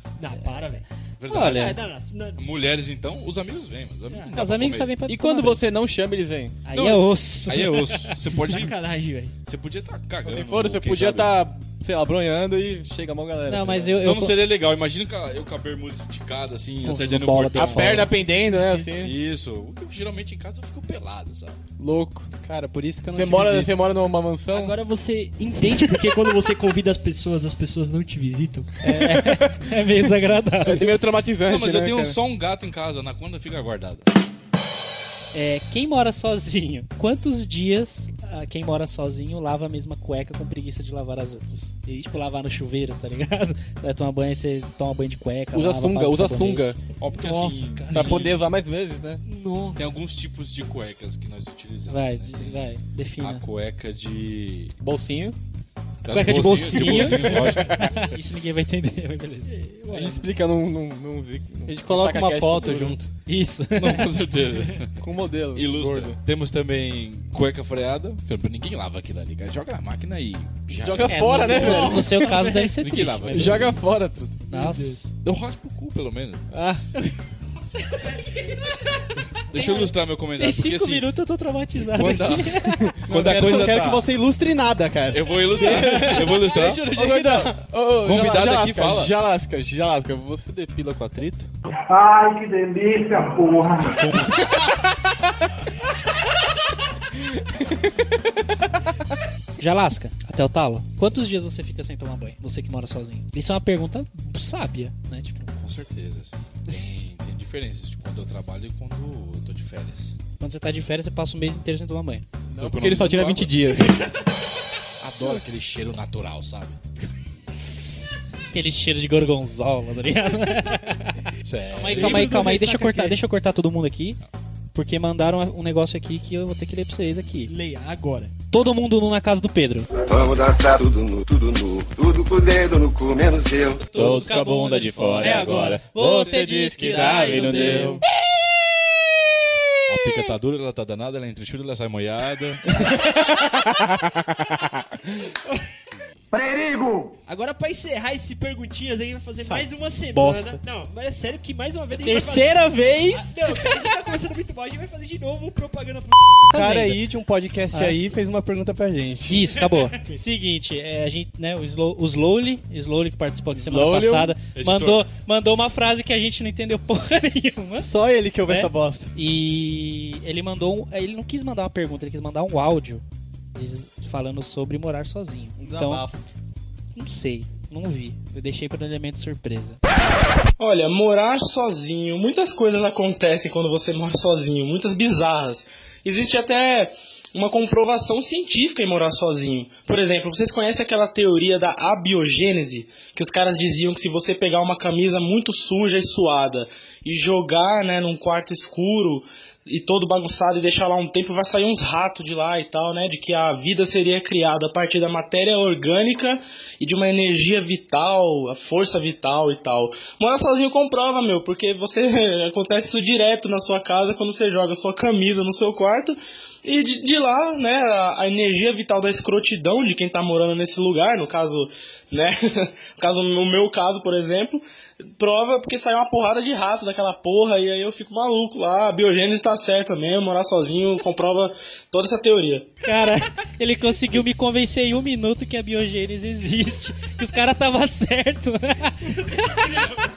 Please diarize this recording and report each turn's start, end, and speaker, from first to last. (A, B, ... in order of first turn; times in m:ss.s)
0:00.2-0:02.4 A
0:01.2-0:01.8 B
0:01.3-0:01.8 C
0:02.4-0:04.9 B
0:04.1-0:04.3 A
0:04.3-0:05.6 C
0:05.0-0:06.6 D
0:06.6-0:08.1 C
0:06.7-0:08.8 B
0:08.3-0:09.3 A
0:09.4-0:11.4 B
0:10.2-0:14.1 D
0:13.5-0:14.4 C
0:14.0-0:18.2 B
0:16.8-0:18.2 C
0:17.6-0:19.1 D
0:18.3-0:18.9 A
0:19.0-0:21.6 B
0:21.8-0:22.3 D
0:22.4-0:23.8 E
0:23.1-0:24.8 D
0:24.5-0:28.7 A
0:28.8-0:31.0 C
0:28.9-0:29.8 D
0:30.6-0:32.2 D
0:31.4-0:34.1 B
0:35.3-0:46.7 C
0:45.5-0:46.8 D
0:47.0-0:48.4 B
0:47.1-0:48.4 A
0:47.9-0:49.2 D
0:49.2-0:50.0 A
0:49.7-0:52.7 B
0:51.9-0:53.4 C
0:53.2-0:54.7 B
0:54.8-0:55.4 D
0:56.0-0:58.0 B
0:56.1-0:59.5 C
0:59.4-1:00.3 A
0:59.9-1:03.0 D
1:01.6-1:03.1 E
1:03.3-1:04.1 C
1:03.8-1:04.9 B
1:05.0-1:06.2 D
1:05.5-1:13.8 B
1:10.7-1:12.2 D
1:11.1-1:13.7 C
1:11.4-1:12.8 A
1:13.3-1:14.4 D
1:14.5-1:15.0 A
1:14.5-1:15.1 C
1:15.2-1:16.4 B
1:16.5-1:16.8 D
1:17.8-1:18.8 A
1:19.5-1:21.1 B
1:19.6-1:19.8 C
1:19.6-1:19.9 A
1:20.4-1:22.8 C
1:21.9-1:24.0 B
1:22.8-1:23.9 D
1:23.1-1:26.0 E
1:25.1-1:26.9 B
1:25.6-1:31.5 D
1:26.8-1:27.5 E
1:28.0-1:29.1 B
1:31.9-1:33.9 F
1:34.0-1:34.3 C
1:39.6-1:45.5 C
1:45.6-1:50.2 B
1:50.4-1:52.2 C
1:52.5-1:53.6 B
1:52.5-1:54.0 D
1:55.0-1:56.8 B
1:58.5-2:01.2 C
2:01.4-2:02.4 B
2:01.7-2:04.2 C
2:01.9-2:03.2 A
2:04.7-2:07.5 C
2:07.5-2:08.3 A
2:08.5-2:09.9 C
2:10.0-2:13.8 G
2:13.8-2:18.0 C
2:13.9-2:18.0 D
2:15.2-2:15.8 A
2:16.9-2:18.0 A
2:19.9-2:22.7 B
2:26.3-2:27.1 F
2:27.2-2:36.5 A
2:29.4-2:30.6 C
2:32.0-2:33.9 C
2:36.5-2:37.0 C
2:36.5-2:39.5 E
2:39.3-2:47.9 C
2:39.5-2:40.2 A
2:43.5-2:44.4 D
2:44.5-2:45.0 B
2:47.8-2:49.1 E
2:48.4-2:56.0 C
2:55.6-2:56.2 E
2:56.9-2:59.8 C
3:00.6-3:44.6 H
3:45.2-3:52.7 H
3:52.8-3:59.2 C
3:59.3-4:00.0 A